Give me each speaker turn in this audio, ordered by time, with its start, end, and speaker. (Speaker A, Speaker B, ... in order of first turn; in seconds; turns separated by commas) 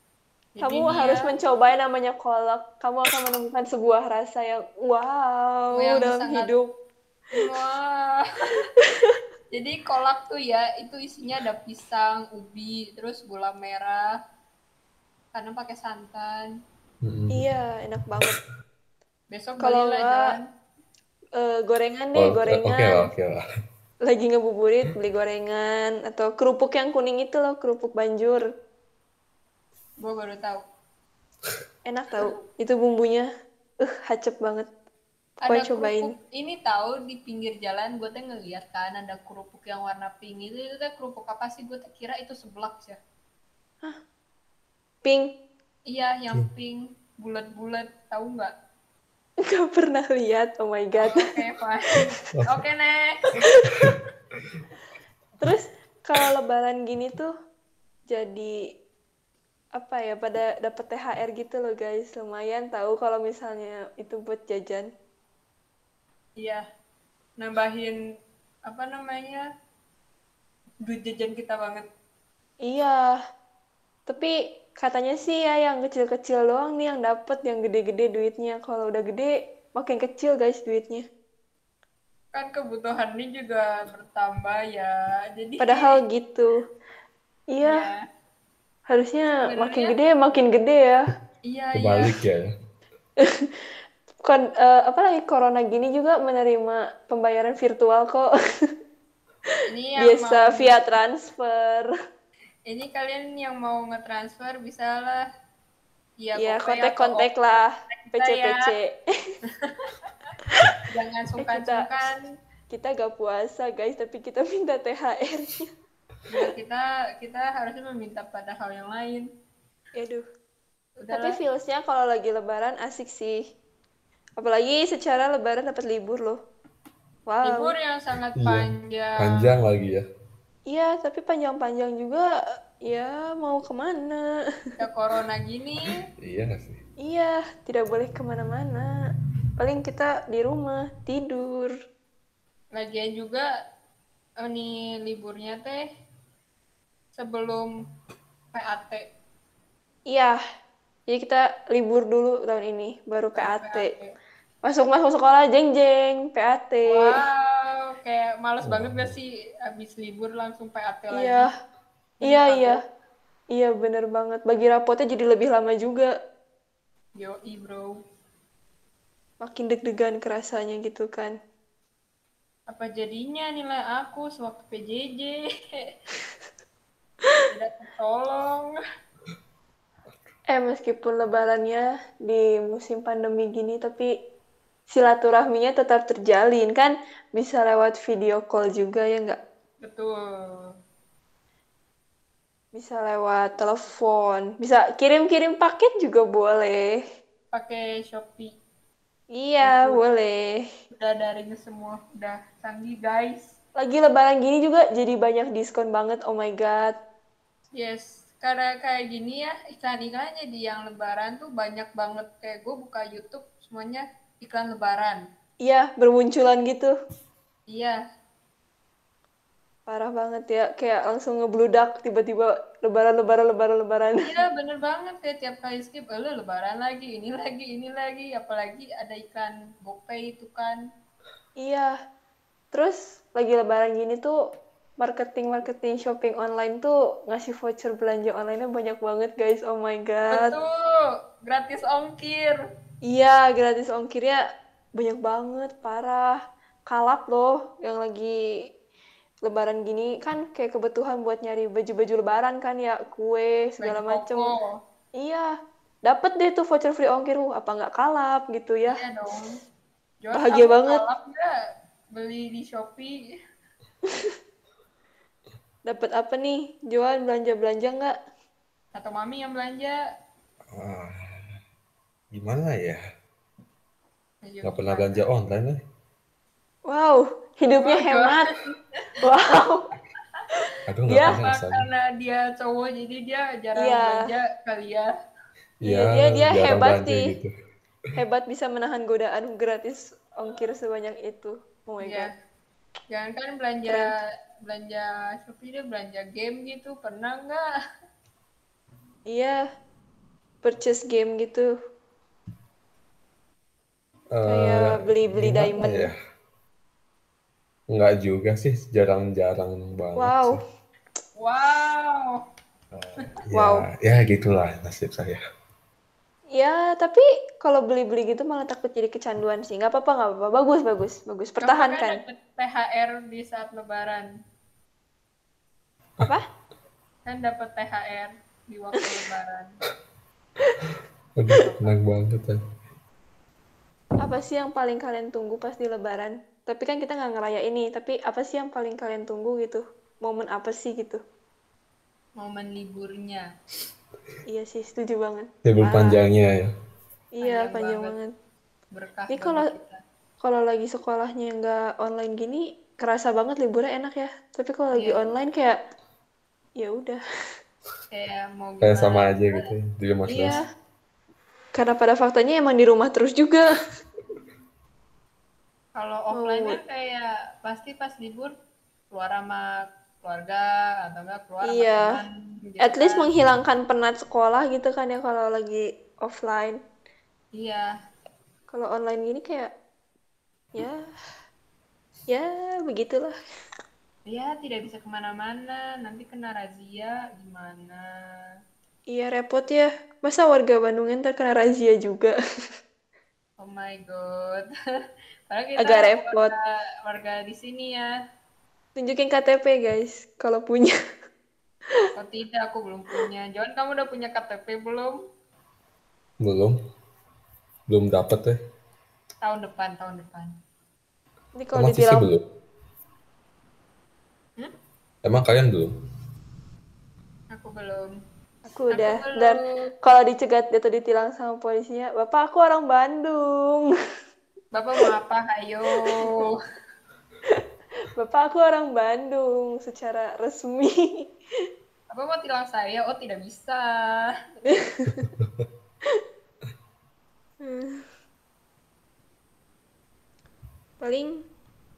Speaker A: 0.6-1.3, Speaker B: 0.6-6.7, Speaker A: 5.7-6.5, Speaker A: 7.3-8.2, Speaker B: 8.8-9.2, Speaker A: 9.5-14.1, Speaker A: 15.3-16.5, Speaker C: 17.0-17.4, Speaker B: 17.3-18.4, Speaker A: 19.3-20.4, Speaker B: 19.6-20.3, Speaker B: 21.4-23.1, Speaker C: 22.1-23.4, Speaker B: 24.0-28.4, Speaker A: 30.0-30.6, Speaker B: 31.9-33.3, Speaker B: 33.8-34.7, Speaker A: 35.4-43.0, Speaker B: 35.5-36.1, Speaker B: 45.0-45.3, Speaker A: 45.9-48.5, Speaker B: 49.4-51.3, Speaker A: 51.0-53.2, Speaker B: 53.5-53.9, Speaker B: 55.4-57.3, Speaker B: 58.1-58.5, Speaker B: 59.8-64.9, Speaker A: 66.4-66.6, Speaker A: 67.4-68.0, Speaker A: 68.7-69.4, Speaker A: 70.8-71.9, Speaker B: 72.6-73.0, Speaker B: 74.1-81.0, Speaker A: 82.3-86.0, Speaker B: 85.6-86.6, Speaker B: 87.5-87.8, Speaker A: 87.6-88.0, Speaker B: 88.9-91.1, Speaker A: 89.4-90.0, Speaker A: 91.4-92.2, Speaker C: 91.7-92.5, Speaker B: 93.2-93.6, Speaker B: 94.2-98.7, Speaker A: 99.7-100.8, Speaker B: 100.0-101.9, Speaker A: 102.7-105.2, Speaker A: 106.2-107.3, Speaker B: 106.4-109.0, Speaker A: 108.1-108.7, Speaker A: 109.6-110.1, Speaker A: 110.9-112.2, Speaker B: 111.4-112.1, Speaker B: 112.7-115.7, Speaker A: 116.3-119.3, Speaker B: 120.0-120.2, Speaker A: 121.0-121.4, Speaker B: 121.1-123.4, Speaker B: 124.4-126.4, Speaker B: 127.3-127.7, Speaker A: 127.4-129.5, Speaker C: 128.4-130.0, Speaker B: 130.7-132.3, Speaker B: 132.9-134.3, Speaker A: 134.8-136.0, Speaker C: 136.2-136.8, Speaker B: 137.0-138.9, Speaker B: 139.6-141.7, Speaker A: 142.7-143.5, Speaker A: 144.4-145.8, Speaker A: 147.1-147.7, Speaker A: 148.5-149.1, Speaker B: 150.1-150.4, Speaker B: 151.1-153.9, Speaker A: 153.4-154.1, Speaker B: 154.6-157.1, Speaker A: 156.9-161.5, Speaker C: 158.6-159.2, Speaker B: 161.1-161.5, Speaker A: 162.2-162.8, Speaker B: 162.2-162.8, Speaker B: 163.5-166.1, Speaker A: 167.2-168.0, Speaker B: 169.4-171.3, Speaker A: 172.7-175.9, Speaker A: 177.5-178.8, Speaker B: 180.5-184.1, Speaker B: 184.9-189.4, Speaker A: 189.8-190.7, Speaker B: 192.7-197.0, Speaker A: 197.5-198.5, Speaker B: 199.3-200.6, Speaker A: 199.6-200.0, Speaker A: 200.9-203.5, Speaker B: 203.8-206.9, Speaker A: 207.7-215.2, Speaker B: 215.6-216.9, Speaker A: 217.7-218.0, Speaker B: 219.9-224.4, Speaker A: 224.2-230.8, Speaker B: 231.6-231.9, Speaker B: 232.7-234.3, Speaker B: 235.0-240.5, Speaker A: 240.3-242.6, Speaker B: 243.1-244.4, Speaker B: 245.0-246.4, Speaker B: 246.9-248.4, Speaker B: 249.4-254.5, Speaker A: 253.8-254.8, Speaker B: 255.2-255.5, Speaker B: 256.1-259.0, Speaker A: 258.9-259.6, Speaker A: 260.2-261.5, Speaker B: 260.3-261.0, Speaker A: 262.1-263.3, Speaker B: 264.1-264.3, Speaker B: 265.9-268.1, Speaker A: 268.9-270.0, Speaker C: 270.7-271.6, Speaker C: 272.3-273.0, Speaker A: 274.4-275.2, Speaker C: 274.6-275.8, Speaker B: 276.9-278.4, Speaker A: 277.7-278.7, Speaker B: 279.2-279.8, Speaker C: 280.9-281.9, Speaker B: 281.1-281.4, Speaker A: 281.2-285.1, Speaker B: 283.8-284.3, Speaker C: 285.8-287.5, Speaker B: 285.8-287.3, Speaker B: 288.1-292.3, Speaker A: 292.0-292.3, Speaker A: 293.1-297.6, Speaker B: 299.3-299.6, Speaker B: 300.6-301.7, Speaker C: 304.3-306.2, Speaker B: 304.4-306.1, Speaker C: 307.9-310.6, Speaker B: 310.1-310.6, Speaker A: 311.4-312.4, Speaker C: 312.9-315.4, Speaker B: 313.5-313.8, Speaker B: 316.5-322.2, Speaker A: 321.6-324.3, Speaker A: 327.2-329.8, Speaker C: 331.4-332.6, Speaker A: 331.6-332.0, Speaker B: 334.2-341.2, Speaker A: 342.4-343.4, Speaker B: 344.5-346.2, Speaker C: 345.6-346.7, Speaker B: 347.4-348.3, Speaker A: 347.4-348.1, Speaker A: 348.9-350.0, Speaker B: 349.3-349.7, Speaker B: 350.4-355.8, Speaker A: 354.9-355.2, Speaker B: 356.8-357.2, Speaker A: 358.1-359.6, Speaker C: 358.8-360.6, Speaker A: 360.3-360.6, Speaker B: 360.3-360.6, Speaker B: 361.8-363.7, Speaker A: 365.9-368.5, Speaker B: 366.3-366.8, Speaker A: 369.1-369.7, Speaker A: 370.2-373.3, Speaker B: 371.6-372.2, Speaker B: 372.8-376.8, Speaker A: 377.5-377.9, Speaker B: 378.7-379.7, Speaker B: 382.3-383.3, Speaker A: 384.3-388.1, Speaker B: 389.1-392.3, Speaker A: 393.6-394.7, Speaker A: 395.5-398.1, Speaker B: 395.8-396.5, Speaker B: 399.0-400.9, Speaker A: 402.2-405.2, Speaker C: 406.4-406.8, Speaker C: 407.9-408.6, Speaker A: 409.4-410.5, Speaker B: 411.5-412.2, Speaker C: 411.7-412.4, Speaker C: 415.2-415.9, Speaker A: 417.5-418.1, Speaker B: 418.7-423.9, Speaker A: 418.9-419.6, Speaker A: 424.7-426.6, Speaker B: 427.4-431.3, Speaker A: 432.1-434.3, Speaker B: 434.7-435.3, Speaker B: 437.6-438.0, Speaker B: 441.0-441.3